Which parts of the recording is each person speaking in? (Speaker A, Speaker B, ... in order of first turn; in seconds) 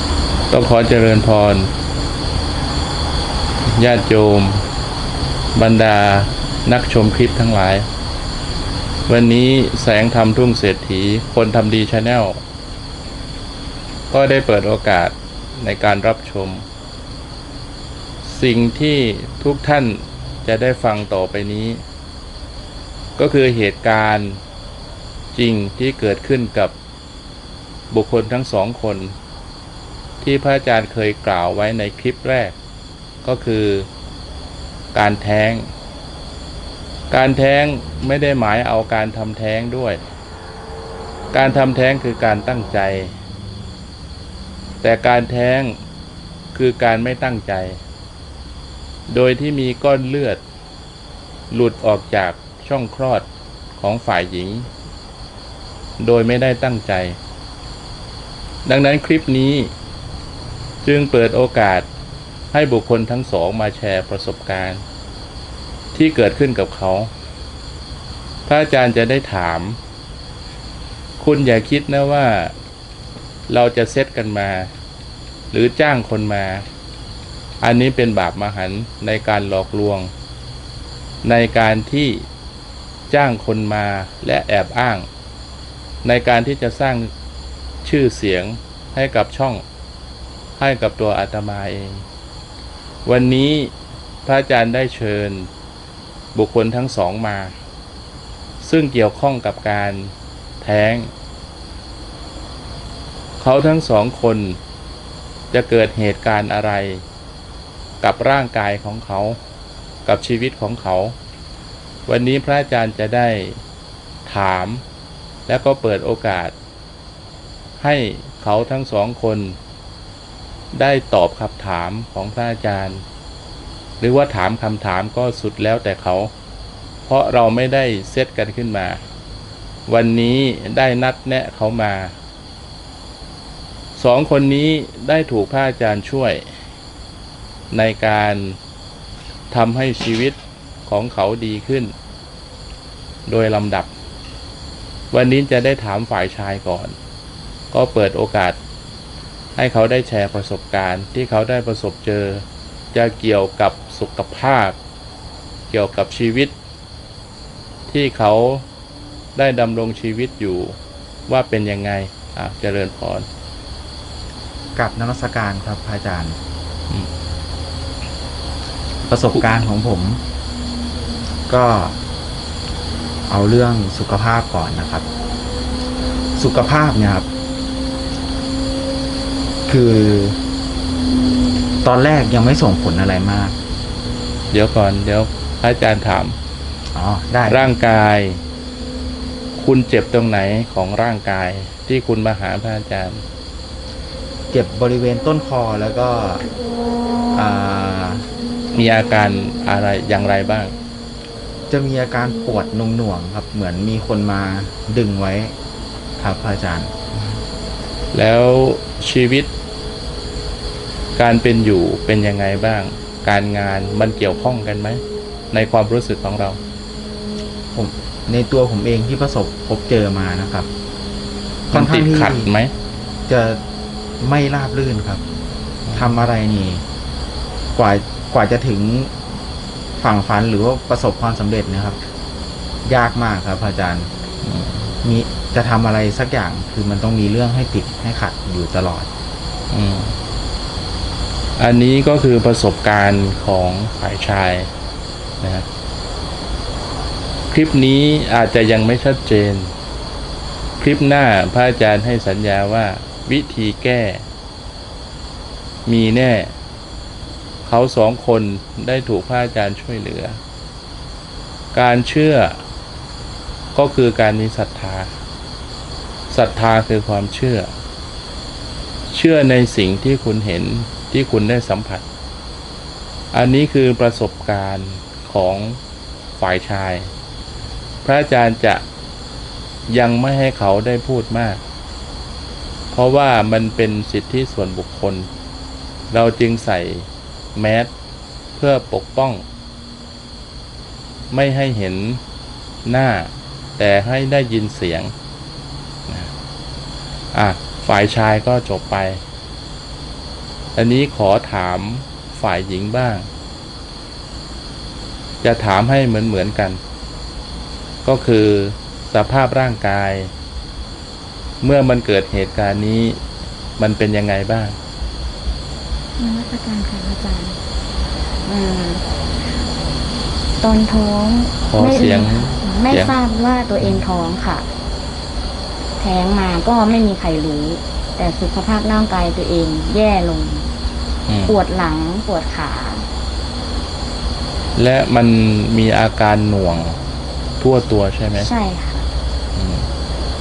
Speaker A: 0.5-1.7, 3.6-4.7, 5.5-7.9, 9.1-12.4, 14.1-16.6, 18.2-21.8, 23.2-24.4, 25.3-26.7, 27.9-29.1, 30.2-32.5, 33.2-33.9, 34.9-35.7, 37.1-40.1, 41.3-43.1, 44.8-45.7, 46.5-47.8, 49.1-50.4, 51.5-53.2, 53.8-54.7, 56.0-57.2, 58.6-59.7, 60.8-61.9, 62.5-64.8, 65.9-67.1, 68.5-69.8, 71.2-72.5, 73.5-74.7, 75.5-76.7, 77.6-80.1, 81.2-82.3, 83.1-85.1, 86.0-87.1, 87.8-89.6, 90.6-92.0, 93.0-93.7, 94.2-95.5, 96.3-97.5, 98.6-101.1, 103.4-104.6, 105.5-107.0, 108.0-109.4, 110.0-111.2, 112.1-113.6, 114.2-114.8, 115.5-116.5, 117.8-119.6, 120.7-123.0, 124.0-126.3, 127.0-129.0, 129.9-132.1, 133.9-136.5, 137.7-138.6, 139.5-141.9, 143.3-143.9, 145.1-146.9, 147.7-148.6, 149.6-154.8, 155.7-156.5, 157.9-158.6, 159.3-160.8, 161.3-163.3, 184.5-186.4, 187.4-188.4, 189.5-193.2, 198.7-200.7, 208.1-209.5, 211.2-216.6, 221.7-222.7, 225.9-226.2, 234.4-234.9, 239.7-240.2, 241.6-244.7, 245.4-245.7, 247.5-249.7, 250.8-254.2, 255.8-256.5, 257.6-260.4, 261.7-262.6, 263.7-265.1, 266.3-267.7, 269.1-272.0, 273.3-275.8, 276.4-277.1, 278.0-278.8, 279.9-281.6, 282.9-285.3, 286.1-287.9, 288.6-289.4, 291.3-292.2, 292.8-295.1, 297.3-299.2, 300.7-303.3, 305.4-306.8, 308.0-310.3, 311.6-313.2, 313.8-314.8, 321.6-323.1, 331.3-331.6, 334.7-337.0, 337.6-338.5, 339.5-339.9
Speaker B: 164.7-166.4, 169.0-170.2, 171.5-171.9, 173.3-175.0, 176.3-177.3, 179.7-180.4, 181.8-183.6, 186.9-187.7, 194.5-196.5, 197.3-198.3, 201.7-205.5, 206.2-207.0, 217.7-220.7, 221.7-222.5, 223.3-223.6, 224.2-225.2, 225.9-226.8, 227.7-229.1, 230.0-232.0, 232.8-234.1, 235.0-239.1
Speaker C: 316.2-317.6, 318.4-319.0, 320.6-324.6, 326.0-330.7, 331.5-333.1, 338.3-339.1